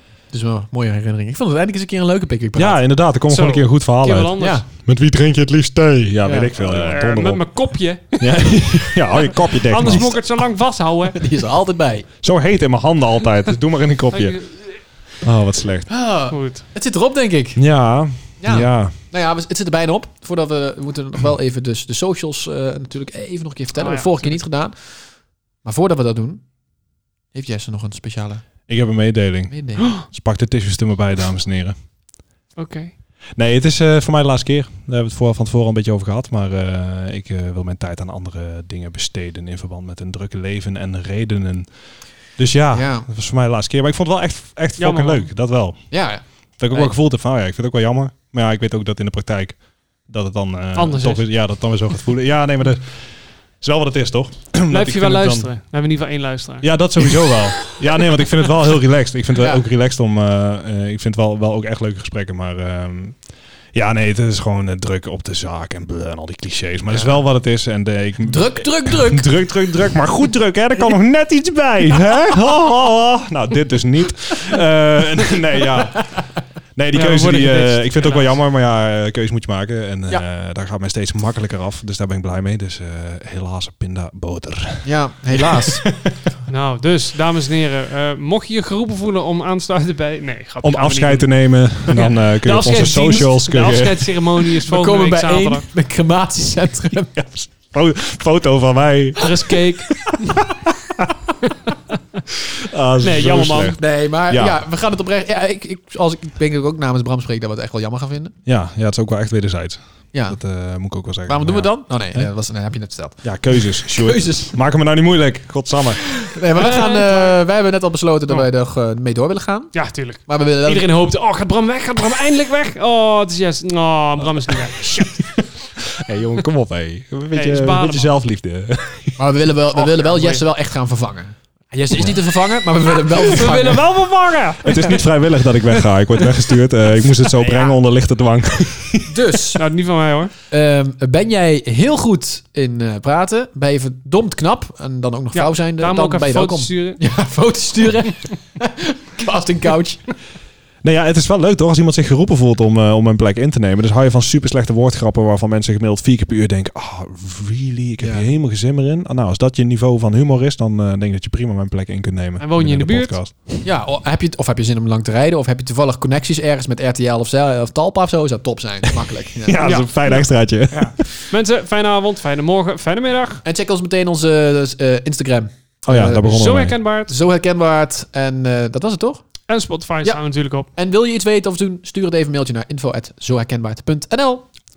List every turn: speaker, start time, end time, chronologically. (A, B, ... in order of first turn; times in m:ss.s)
0:00.3-0:02.8 A
0:02.5-0:07.5 B
0:03.3-0:04.6 C
0:04.4-0:04.6 A
0:06.2-0:06.5 A
0:06.5-0:11.2 C
0:08.2-0:10.2 B
0:09.9-0:10.2 A
0:11.1-0:12.1 A
0:12.2-0:14.4 B
0:14.1-0:14.8 C
0:15.0-0:15.9 B
0:15.9-0:17.6 A
0:16.3-0:16.6 C
0:17.6-0:18.9 B
0:18.4-0:26.5 A
0:23.7-0:24.4 C
0:27.3-0:28.4 A
0:28.7-0:31.7 B
0:29.5-0:30.0 A
0:32.6-0:32.9 C
0:33.3-0:55.5 B
0:42.7-0:43.1 A
0:44.8-0:45.3 C
0:45.9-0:46.9 A
0:50.7-0:51.4 C
0:54.7-0:57.1 C
0:56.6-1:03.2 B
0:59.4-0:59.6 A
1:03.7-1:16.2 B
1:06.9-1:07.2 A
1:08.2-1:09.7 A
1:16.8-1:25.8 B
1:16.9-1:18.4 C
1:24.8-1:25.8 A
1:26.5-1:35.7 C
1:30.6-1:34.1 B
1:34.6-1:37.1 A
1:37.1-1:39.6 B
1:39.2-1:40.3 C
1:42.6-1:44.6 B
1:43.0-1:43.8 C
1:43.8-1:48.3 A
1:48.4-1:52.3 B
1:50.1-1:50.4 A
1:51.2-1:54.5 A
1:53.2-1:56.0 B
1:56.2-2:00.9 A
1:56.6-1:57.4 C
1:59.7-2:05.5 C
2:04.6-2:05.1 B
2:05.9-2:09.2 B
2:07.3-2:08.2 C
2:09.2-2:13.9 A
2:09.8-2:10.4 C
2:13.0-2:15.0 C
2:14.6-2:19.2 B
2:17.4-2:17.8 C
2:19.1-2:19.6 A
2:19.6-2:20.3 C
2:20.5-2:30.1 A
2:25.3-2:27.0 C
2:30.8-2:43.3 B
2:38.0-2:38.3 A
2:42.4-2:43.6 C
2:43.6-2:49.7 A
2:49.4-2:51.3 B
2:49.6-2:53.4 C
2:53.4-2:56.5 A
2:55.8-2:56.8 B
2:56.2-2:57.1 C
2:57.1-2:59.2 A
2:59.5-3:00.7 C
3:00.0-3:04.5 A